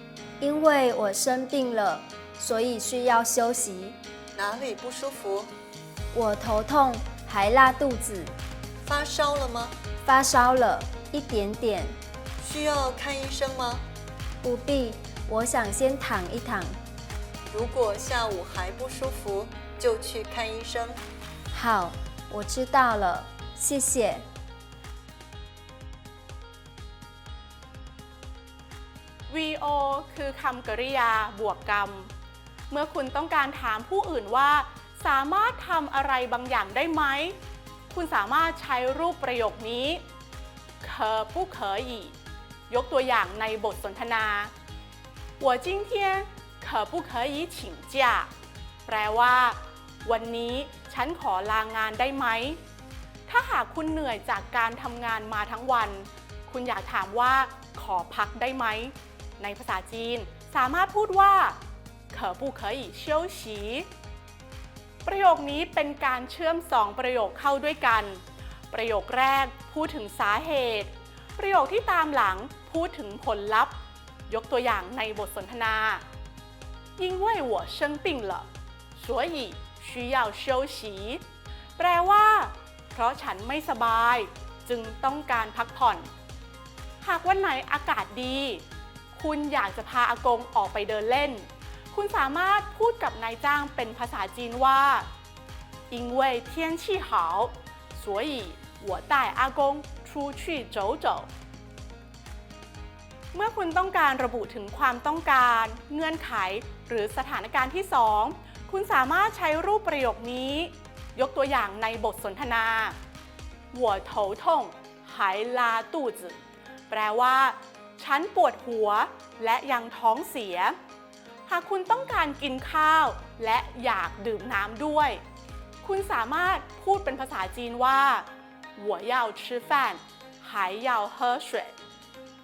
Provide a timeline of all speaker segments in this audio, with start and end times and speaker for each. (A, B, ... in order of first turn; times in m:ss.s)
0:00.4-0:04.0 A
0:04.3-0:05.5 B
0:06.1-0:08.3 A
0:08.8-0:09.8 B
0:10.0-0:11.9 A
0:12.4-0:13.8 B
0:14.4-0:16.8 A
0:17.5-0:21.0 B
0:21.5-0:24.2 A
0:29.3-0:32.1 C
0:32.7-0:37.4 C
0:37.9-0:40.0 C
0:40.8-0:42.1 C
0:42.7-0:44.5 C
0:45.4-0:48.3 C
0:48.8-0:52.6 C
0:53.3-1:01.6 C
1:02.1-1:03.9 C
1:05.0-1:13.8 C
1:14.3-1:16.0 C
1:17.0-1:21.2 C
1:21.8-1:26.1 C
1:27.0-1:28.6 C
1:29.1-1:35.1 C
1:35.9-1:41.3 C
1:43.3-1:53.0 C
1:53.7-1:56.4 C
1:56.9-2:00.8 C
2:01.5-2:05.2 C
2:05.8-2:11.7 C